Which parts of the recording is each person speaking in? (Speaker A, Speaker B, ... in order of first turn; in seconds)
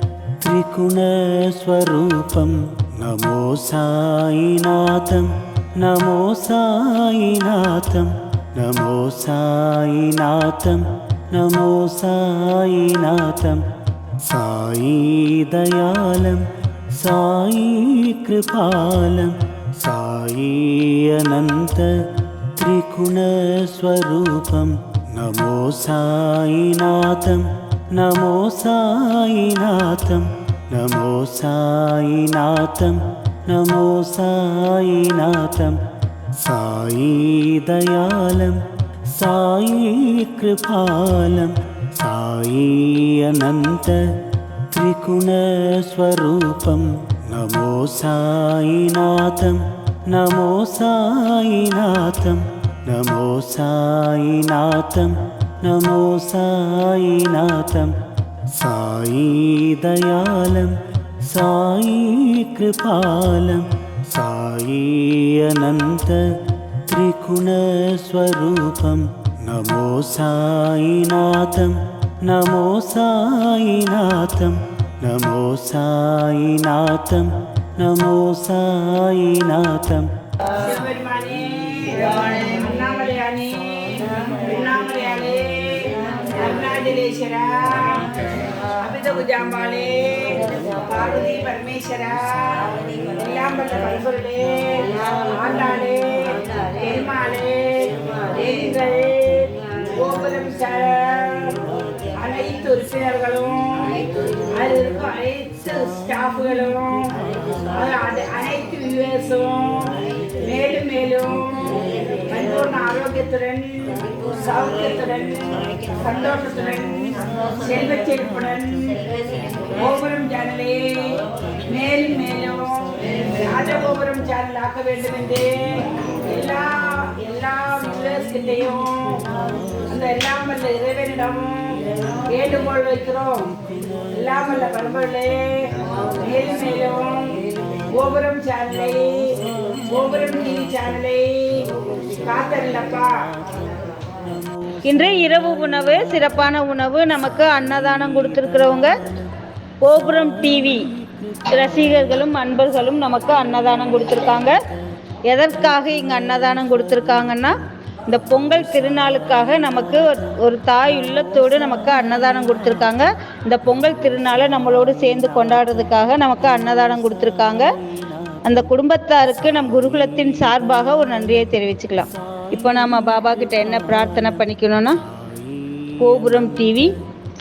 Speaker A: 0.4-13.6, 14.2-35.8, 36.3-44.1, 44.7-58.0, 58.5-80.1, 150.2-152.1, 158.3-160.1, 166.8-168.5, 169.8-170.8, 172.3-174.3, 175.1-176.9
Speaker B: 80.5-117.0, 117.5-119.0, 119.7-133.5, 134.1-143.3
Speaker C: 144.8-148.9, 149.8-150.9, 151.5-154.6, 155.3-157.5, 158.1-167.7, 168.4-175.0, 176.0-176.9